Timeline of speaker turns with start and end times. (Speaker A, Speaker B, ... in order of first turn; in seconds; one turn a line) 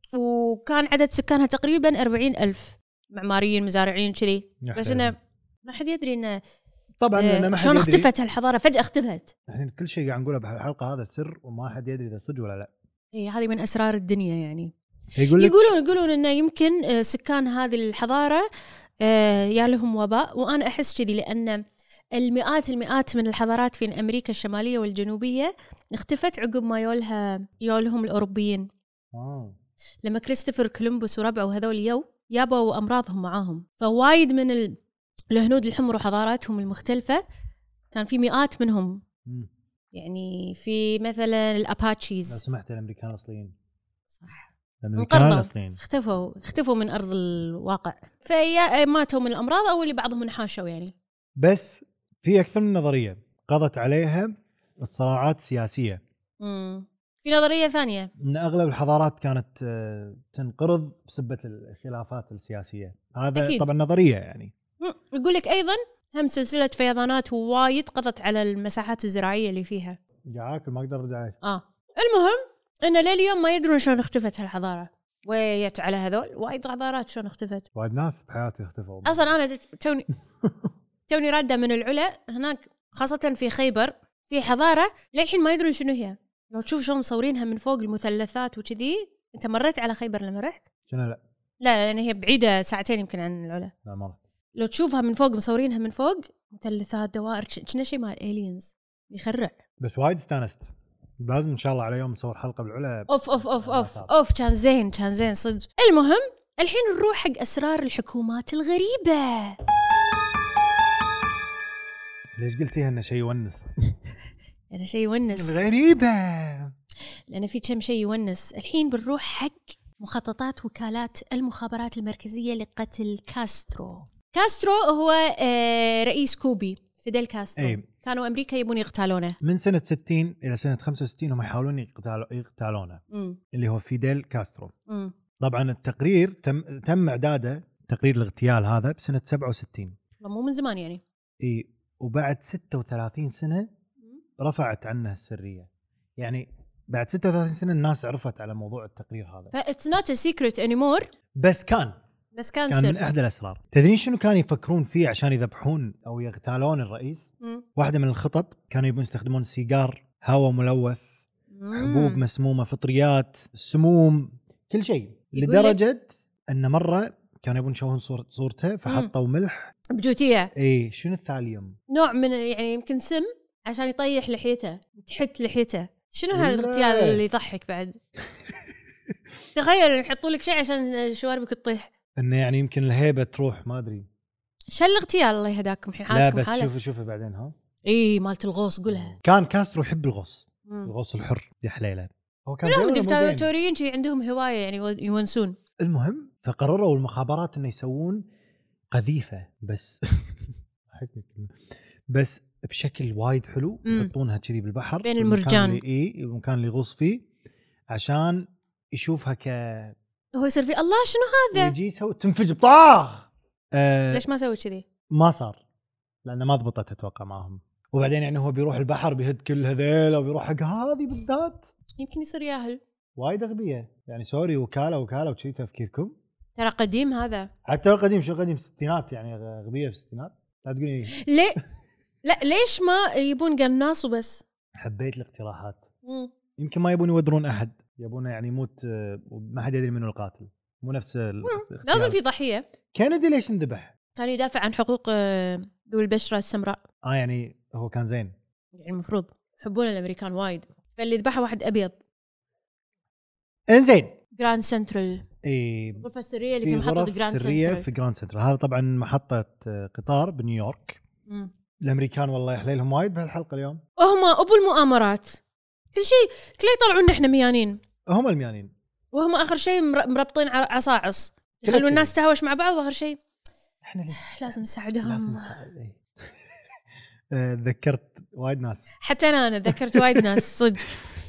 Speaker A: 0.1-6.4
Speaker B: 4.6-5.1
Speaker B: 7.0-8.1
Speaker A: 7.2-9.3
Speaker B: 9.5-12.7
Speaker A: 13.1-14.7
Speaker B: 15.2-15.7
Speaker A: 15.3-18.5
Speaker A: 19.0-21.6
Speaker A: 22.1-28.7
Speaker B: 29.1-29.6
Speaker A: 30.0-34.8
Speaker A: 35.3-37.2
Speaker A: 37.9-39.0
Speaker A: 39.9-42.4
Speaker B: 42.3-43.5
Speaker A: 44.2-50.9
Speaker B: 44.8-45.8
Speaker B: 51.4-56.0
Speaker A: 56.4-58.1
Speaker B: 58.2-64.5
Speaker A: 63.4-63.6
Speaker A: 64.8-70.0
Speaker B: 70.3-71.4
Speaker A: 71.4-77.7
Speaker B: 77.7-79.3
Speaker A: 79.0-80.1
Speaker B: 80.4-80.7
Speaker A: 81.1-90.6
Speaker B: 90.9-91.2
Speaker A: 91.6-93.7
Speaker B: 93.8-94.2
Speaker A: 94.6-99.6
Speaker B: 99.8-100.7
Speaker B: 101.2-104.1
Speaker A: 103.1-109.5
Speaker B: 112.4-114.0
Speaker A: 114.7-115.6
Speaker B: 115.3-116.7
Speaker A: 117.3-129.4
Speaker B: 127.6-127.8
Speaker B: 129.4-134.7
Speaker A: 133.1-133.4
Speaker A: 134.9-135.1
Speaker B: 135.4-139.9
Speaker A: 140.2-141.0
Speaker B: 141.4-143.7
Speaker B: 144.4-149.5
Speaker A: 149.5-151.1
Speaker B: 151.3-151.9
Speaker A: 152.3-153.0
Speaker B: 152.7-161.0
Speaker A: 161.5-162.2
Speaker B: 161.7-169.7
Speaker A: 165.3-165.8
Speaker A: 169.9-170.5
Speaker B: 170.5-171.8
Speaker A: 171.9-178.0
Speaker B: 176.3-177.2
Speaker A: 179.5-181.9
Speaker B: 182.2-184.1
Speaker A: 184.7-186.7
Speaker B: 186.1-187.5
Speaker A: 187.8-189.1
Speaker B: 188.9-193.5
Speaker A: 190.7-190.9
Speaker A: 192.6-195.6
Speaker B: 195.8-198.2
Speaker B: 198.9-201.6
Speaker B: 202.1-207.2
Speaker A: 203.8-204.1
Speaker A: 205.0-205.8
Speaker B: 207.9-209.9
Speaker A: 210.3-211.7
Speaker B: 211.5-214.3
Speaker A: 214.1-214.8
Speaker B: 215.1-215.6
Speaker B: 216.2-221.7
Speaker A: 222.0-222.8
Speaker B: 223.2-226.1
Speaker A: 226.6-227.5
Speaker B: 227.6-231.1
Speaker A: 231.1-231.6
Speaker A: 232.2-234.4
Speaker B: 234.8-235.8
Speaker A: 236.0-236.3
Speaker B: 236.6-242.2
Speaker A: 241.4-242.6
Speaker B: 242.9-243.9
Speaker A: 244.2-246.8
Speaker B: 247.0-248.3
Speaker A: 248.7-252.0
Speaker B: 253.7-254.2
Speaker A: 254.4-255.2
Speaker B: 255.4-256.1
Speaker A: 256.0-257.9
Speaker B: 256.6-261.0
Speaker B: 261.8-263.8
Speaker A: 264.0-265.4
Speaker A: 265.9-267.8
Speaker B: 268.1-268.7
Speaker A: 269.1-273.2
Speaker B: 271.6-272.1
Speaker B: 273.8-274.3
Speaker A: 274.2-275.5
Speaker B: 275.0-276.0
Speaker B: 277.3-278.9
Speaker A: 279.0-280.9
Speaker B: 279.7-280.5